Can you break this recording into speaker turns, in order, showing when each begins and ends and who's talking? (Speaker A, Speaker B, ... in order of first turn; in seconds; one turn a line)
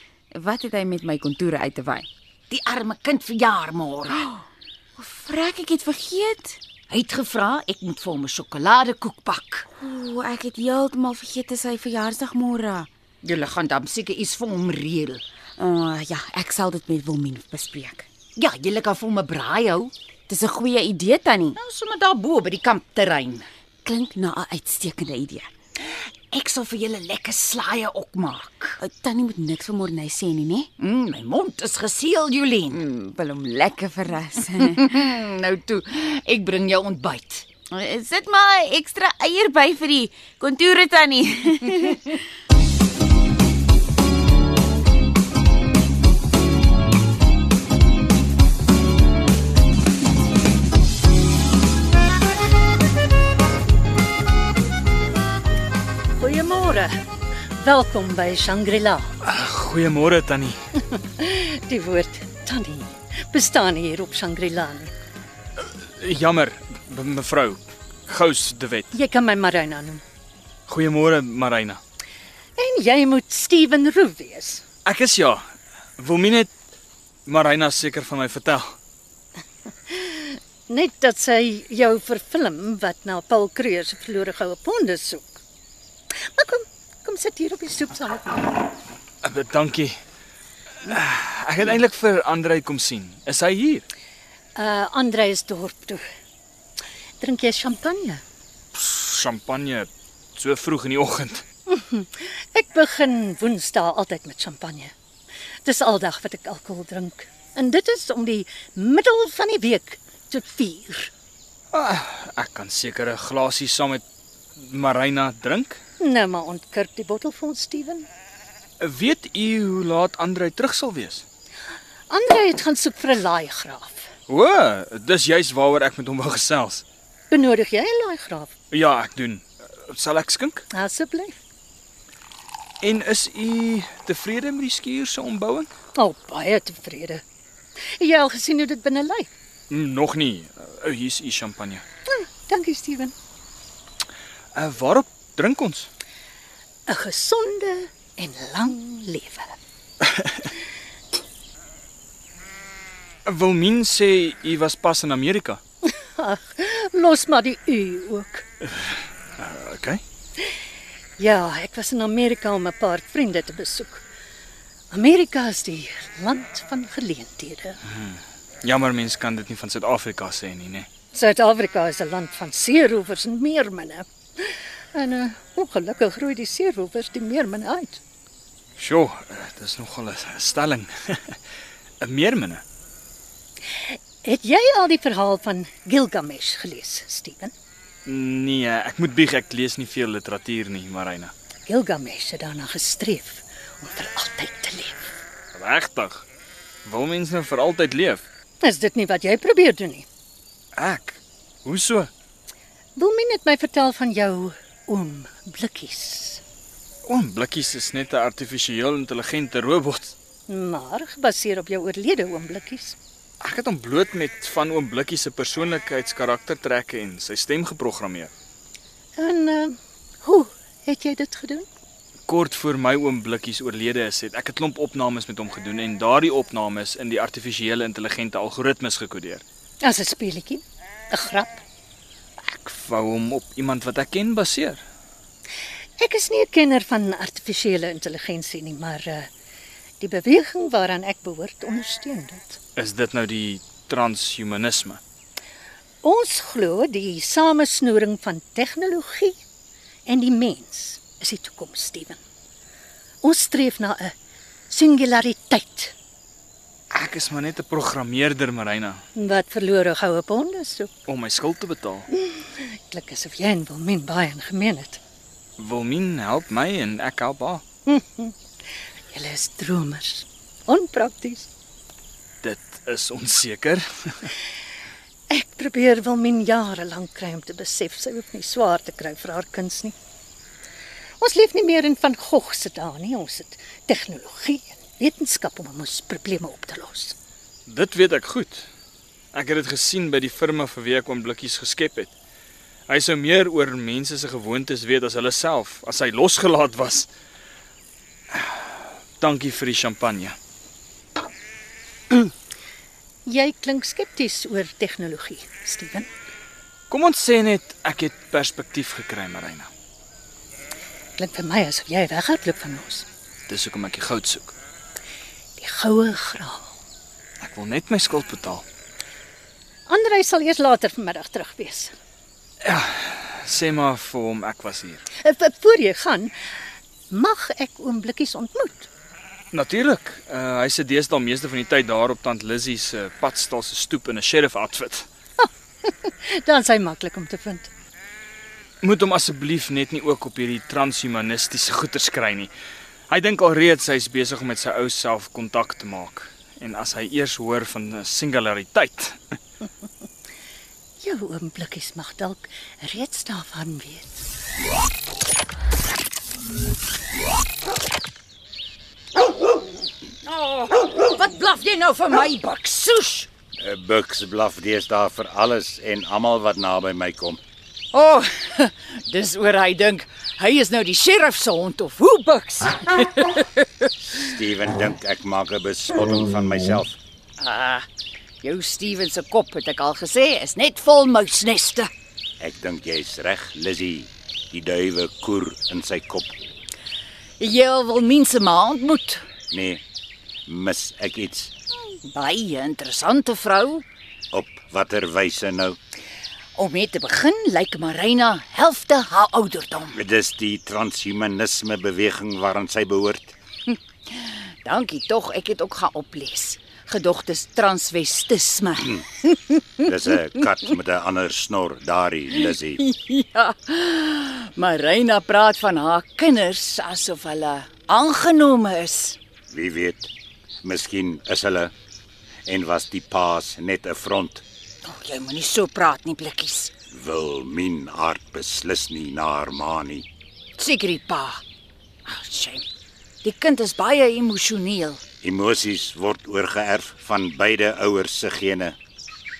Speaker A: 0.3-2.1
Speaker B: 2.5-4.2
Speaker A: 5.0-6.6
Speaker B: 6.9-9.7
Speaker A: 9.8-12.9
Speaker B: 13.2-15.2
Speaker A: 15.6-18.1
Speaker B: 18.4-19.9
Speaker A: 20.3-21.6
Speaker B: 21.6-23.4
Speaker A: 23.8-25.5
Speaker B: 26.3-28.8
Speaker A: 28.8-30.7
Speaker B: 30.8-32.8
Speaker A: 32.7-35.0
Speaker B: 34.6-37.5
Speaker A: 37.7-42.1
Speaker C: 56.1-56.9
Speaker C: 57.6-59.1
Speaker D: 59.2-60.6
Speaker C: 61.0-64.9
Speaker D: 65.6-68.9
Speaker C: 68.9-70.0
Speaker D: 70.7-71.8
Speaker C: 72.6-74.6
Speaker D: 74.8-75.4
Speaker D: 76.0-76.5
Speaker D: 77.2-78.8
Speaker C: 79.9-85.3
Speaker C: 86.3-88.5
Speaker D: 89.2-90.0
Speaker D: 90.8-93.8
Speaker C: 94.5-96.0
Speaker C: 97.2-98.2
Speaker D: 98.7-101.4
Speaker C: 101.7-104.9
Speaker C: 105.6-111.1
Speaker D: 111.7-114.0
Speaker D: 114.5-115.8
Speaker C: 116.0-118.1
Speaker D: 118.8-121.2
Speaker C: 122.1-124.1
Speaker D: 124.3-126.8
Speaker C: 127.3-128.5
Speaker D: 128.7-130.6
Speaker C: 130.7-131.4
Speaker D: 132.8-135.7
Speaker C: 135.9-137.2
Speaker C: 138.0-139.3
Speaker D: 139.7-141.8
Speaker C: 142.1-143.1
Speaker D: 144.5-145.9
Speaker C: 146.9-149.6
Speaker D: 150.0-150.4
Speaker D: 153.2-155.6
Speaker C: 155.8-158.4
Speaker D: 159.4-160.0
Speaker C: 161.2-164.0
Speaker C: 164.9-167.8
Speaker D: 167.9-170.9
Speaker C: 171.1-178.0
Speaker D: 178.8-181.4
Speaker D: 182.0-182.6
Speaker C: 183.8-187.5
Speaker D: 188.1-191.3
Speaker C: 191.7-195.1
Speaker D: 195.5-196.2
Speaker D: 196.8-198.2
Speaker C: 198.6-200.1
Speaker D: 200.8-202.1
Speaker C: 202.9-206.4
Speaker D: 207.1-210.1
Speaker C: 210.5-212.9
Speaker D: 213.4-218.3
Speaker C: 219.2-221.7
Speaker D: 222.3-229.4
Speaker C: 229.8-231.6
Speaker D: 232.5-234.8
Speaker C: 236.0-239.3
Speaker C: 240.0-242.6
Speaker D: 242.8-245.0
Speaker C: 246.0-249.4
Speaker C: 250.1-252.2
Speaker C: 253.2-254.1
Speaker C: 254.7-255.9
Speaker D: 256.9-259.0
Speaker C: 259.1-260.9
Speaker D: 261.1-262.1
Speaker C: 262.1-265.0
Speaker D: 265.6-267.6
Speaker C: 267.9-268.3
Speaker C: 269.1-271.5
Speaker D: 272.4-274.3
Speaker C: 275.3-279.9
Speaker C: 281.2-287.1
Speaker D: 287.6-288.7
Speaker D: 289.3-292.1
Speaker D: 292.9-297.1
Speaker D: 298.3-300.4
Speaker C: 303.2-306.1
Speaker D: 306.9-309.7
Speaker C: 311.1-313.1
Speaker D: 313.5-314.5
Speaker C: 315.6-316.7
Speaker D: 317.4-318.6
Speaker C: 319.9-321.9
Speaker D: 322.6-325.1
Speaker C: 325.2-326.3
Speaker C: 327.1-328.9
Speaker D: 329.5-335.1
Speaker C: 335.4-337.7
Speaker D: 338.8-342.5
Speaker D: 343.1-349.4
Speaker C: 351.0-354.2
Speaker B: 360.2-363.3
Speaker E: 363.6-367.4
Speaker B: 367.9-373.6
Speaker E: 374.1-376.9
Speaker B: 377.4-377.8
Speaker B: 378.4-381.9
Speaker E: 382.4-386.3
Speaker B: 387.4-389.2
Speaker E: 389.5-389.8
Speaker E: 390.5-391.5
Speaker B: 392.0-393.8
Speaker E: 394.3-395.8
Speaker B: 396.6-400.0
Speaker E: 399.9-403.3
Speaker B: 403.7-409.6
Speaker E: 409.9-412.8
Speaker B: 412.8-419.2
Speaker E: 419.5-420.1
Speaker E: 420.6-421.7
Speaker E: 422.4-424.4
Speaker B: 424.8-426.7
Speaker E: 426.9-430.1
Speaker B: 430.6-431.4
Speaker B: 432.1-432.6
Speaker B: 433.2-435.0
Speaker E: 435.2-438.8